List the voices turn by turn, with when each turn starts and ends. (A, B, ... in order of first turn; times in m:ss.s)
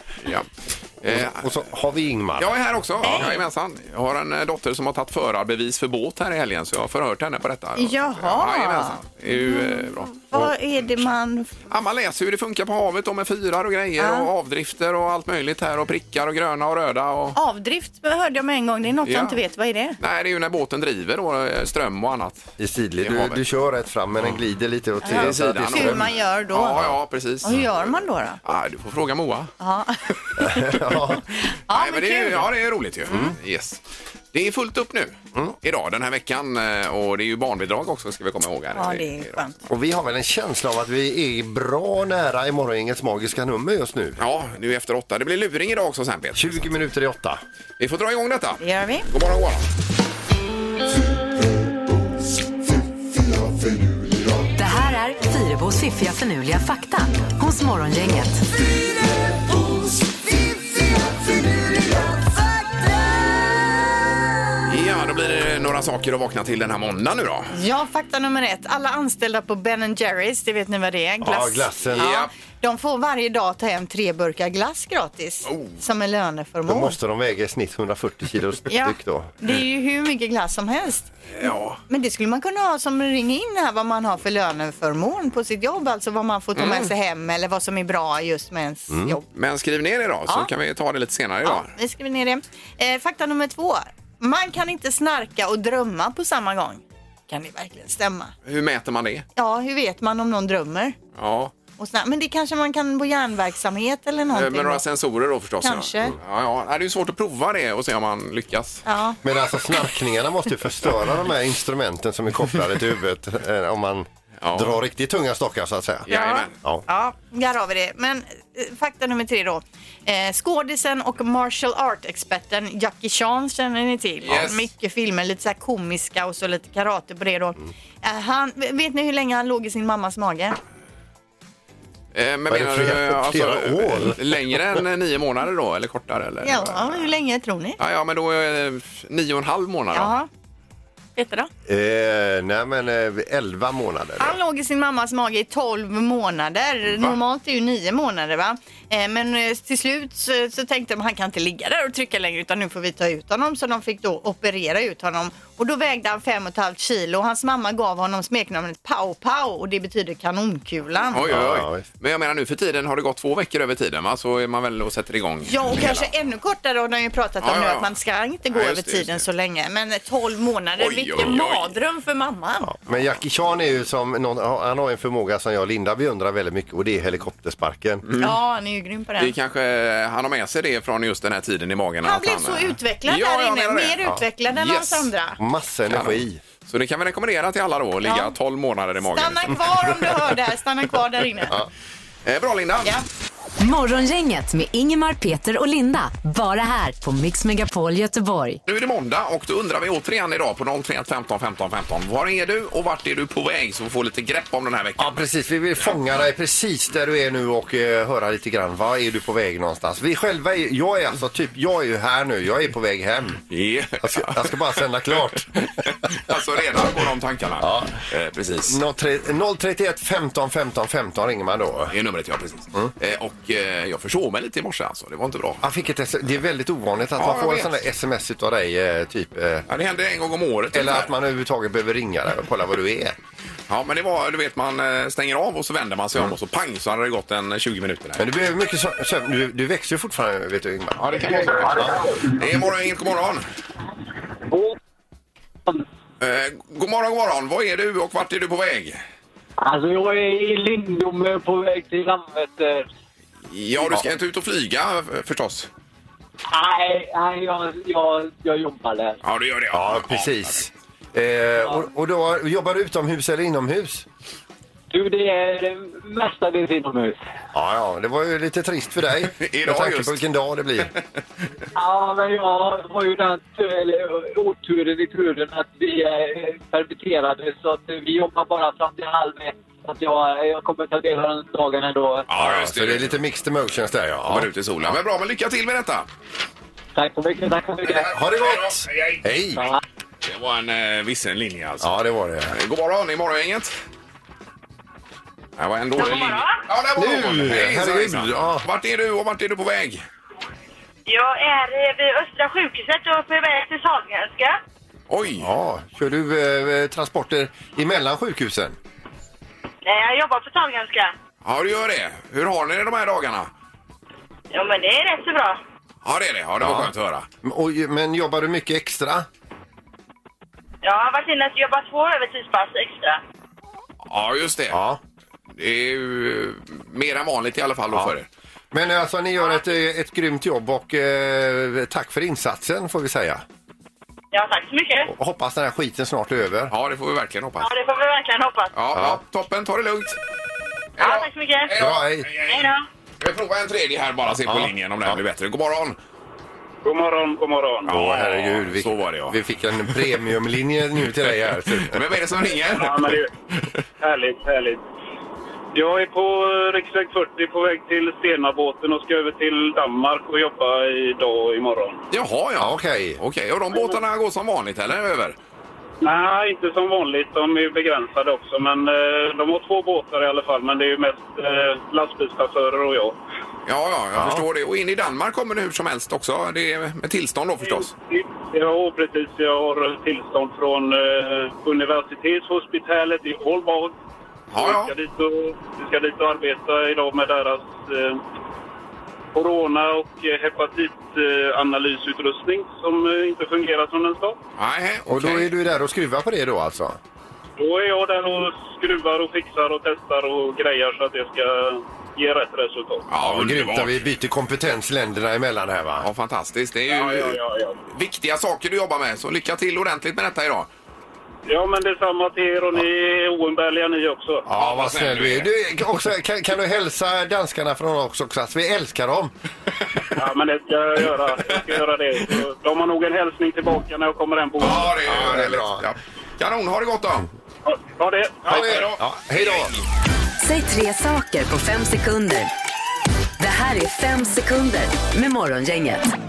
0:01.0-0:01.6 A
0:01.0-0:03.3 B
0:02.4-0:10.2 A
0:03.0-0:03.4 C
0:07.8-0:11.5 C
0:11.7-0:17.4 A
0:14.0-0:14.3 C
0:17.3-0:20.0 C
0:19.0-0:19.4 A
0:20.0-0:22.5 A
0:22.6-0:26.1 B
0:23.0-0:23.4 A
0:25.0-0:28.4 C
0:25.1-0:27.8 A
0:28.4-0:29.5 A
0:29.6-0:32.5 C
0:30.4-0:31.2 B
0:31.7-0:33.8 A
0:33.0-0:33.4 B
0:34.3-0:39.4 A
0:38.7-0:39.6 C
0:39.7-0:44.2 B
0:44.2-0:46.7 A
0:46.3-0:47.4 B
0:47.8-0:49.7 A
0:48.6-0:49.1 C
0:54.6-0:58.4 D
1:04.7-1:07.5 A
1:07.5-1:17.0 C
1:11.2-1:12.1 B
1:11.9-1:12.3 A
1:15.5-1:15.8 A
1:16.7-1:19.3 B
1:18.7-1:29.2 C
1:21.4-1:21.8 A
1:26.6-1:26.9 A
1:28.9-1:29.2 B
1:29.3-1:31.7 A
1:31.4-1:38.3 C
1:38.4-1:39.2 A
1:39.4-1:41.0 C
1:41.1-1:41.5 A
1:41.8-1:44.8 C
1:44.3-1:48.8 A
1:45.6-1:46.1 C
1:48.8-1:49.2 C
1:49.2-1:56.1 B
1:54.4-1:54.8 A
1:56.1-1:56.5 A
1:56.1-2:10.6 C
2:04.2-2:04.7 A
2:12.1-2:17.1 A
2:12.5-2:14.8 B
2:16.4-2:17.8 C
2:17.8-2:20.1 A
2:19.9-2:20.3 C
2:21.2-2:21.5 C
2:21.6-2:24.4 B
2:24.2-2:41.3 C
2:41.1-2:46.1 A
2:41.2-2:41.8 B
2:45.5-2:52.7 C
2:47.4-2:47.9 A
2:48.5-2:49.2 A
2:50.8-2:51.7 A
2:52.6-2:58.0 B
2:58.0-2:58.4 A
2:58.2-2:59.3 C
2:59.2-3:05.1 A
3:02.0-3:05.4 C
3:05.4-3:06.4 B
3:05.9-3:09.6 A
3:08.0-3:08.3 C
3:09.1-3:11.6 C
3:12.2-3:13.0 A
3:13.6-3:18.6 D
3:18.6-3:25.2 A
3:25.0-3:33.4 B
3:33.5-3:34.8 A
3:34.0-3:35.7 B
3:35.3-3:38.8 A
3:37.6-3:38.0 B
3:38.7-3:41.9 B
3:41.9-3:45.6 A
3:45.6-3:49.7 B
3:47.2-3:47.8 A
3:49.7-3:51.1 A
3:50.7-3:53.2 B
3:53.7-3:58.3 A
3:58.2-4:02.0 B
4:01.0-4:03.4 A
4:04.5-4:04.7 E
4:06.2-4:09.0 A
4:09.6-4:12.9 E
4:13.5-4:15.7 A
4:16.5-4:19.2 E
4:19.2-4:20.6 A
4:19.7-4:24.0 B
4:24.9-4:27.2 E
4:27.5-4:30.9 B
4:29.4-4:30.2 A
4:31.7-4:42.2 E
4:42.3-4:43.2 A
4:42.4-4:44.9 B
4:44.2-4:46.1 A
4:46.9-4:48.1 E
4:47.9-4:49.2 A
4:48.0-4:49.6 B
4:49.5-4:49.8 E
4:50.2-4:51.9 A
4:51.8-4:52.6 B
4:52.5-4:53.7 A
4:55.6-5:00.0 A
4:56.0-4:56.6 F
4:57.0-4:58.6 B
5:01.0-5:04.6 F
5:05.1-5:05.5 A
5:05.4-5:08.8 B
5:09.8-5:11.1 F
5:11.4-5:13.5 A
5:14.5-5:15.6 F
5:16.0-5:17.3 A
5:16.6-5:16.9 B
5:17.4-5:19.3 B
5:20.8-5:23.2 F
5:24.0-5:24.8 A
5:24.7-5:25.0 B
5:25.6-5:28.3 A
5:28.7-5:33.4 B
5:34.3-5:35.1 F
5:35.0-5:36.7 B
5:36.7-5:37.7 A
5:37.6-5:38.7 F
5:38.7-5:40.2 A
5:38.9-5:39.2 B
5:41.0-5:42.6 A
5:41.0-5:41.7 F
5:41.7-5:42.3 B
5:42.5-5:42.8 F
5:43.2-5:46.0 A
5:44.4-5:45.2 B
5:46.8-5:47.9 G
5:47.9-5:50.1 A
5:47.9-5:52.0 B
5:51.2-5:53.6 A
5:52.7-5:53.3 G
5:54.0-5:54.8 G
5:55.7-6:02.0 G
6:02.1-6:05.4 A
6:02.6-6:03.2 B
6:06.0-6:13.2 G
6:13.6-6:17.9 A
6:14.2-6:14.4 B
6:17.6-6:23.9 G
6:24.5-6:24.9 A
6:24.6-6:28.2 G
6:29.3-6:34.4 G
6:34.6-6:35.5 A
6:35.1-6:37.0 B
6:37.6-6:43.0 G
6:43.1-6:44.0 A
6:43.2-6:46.1 B
6:46.0-6:47.4 A
6:46.9-6:47.8 G
6:47.9-6:50.7 A
6:51.5-6:54.4 G
6:54.5-6:59.3 B
6:54.6-6:55.5 A
7:00.1-7:05.1 G
7:04.6-7:07.3 A
7:05.0-7:05.8 B
7:07.6-7:08.6 G
7:08.4-7:09.9 A
7:08.5-7:09.7 B
7:10.4-7:12.5 D
7:13.4-7:16.1 D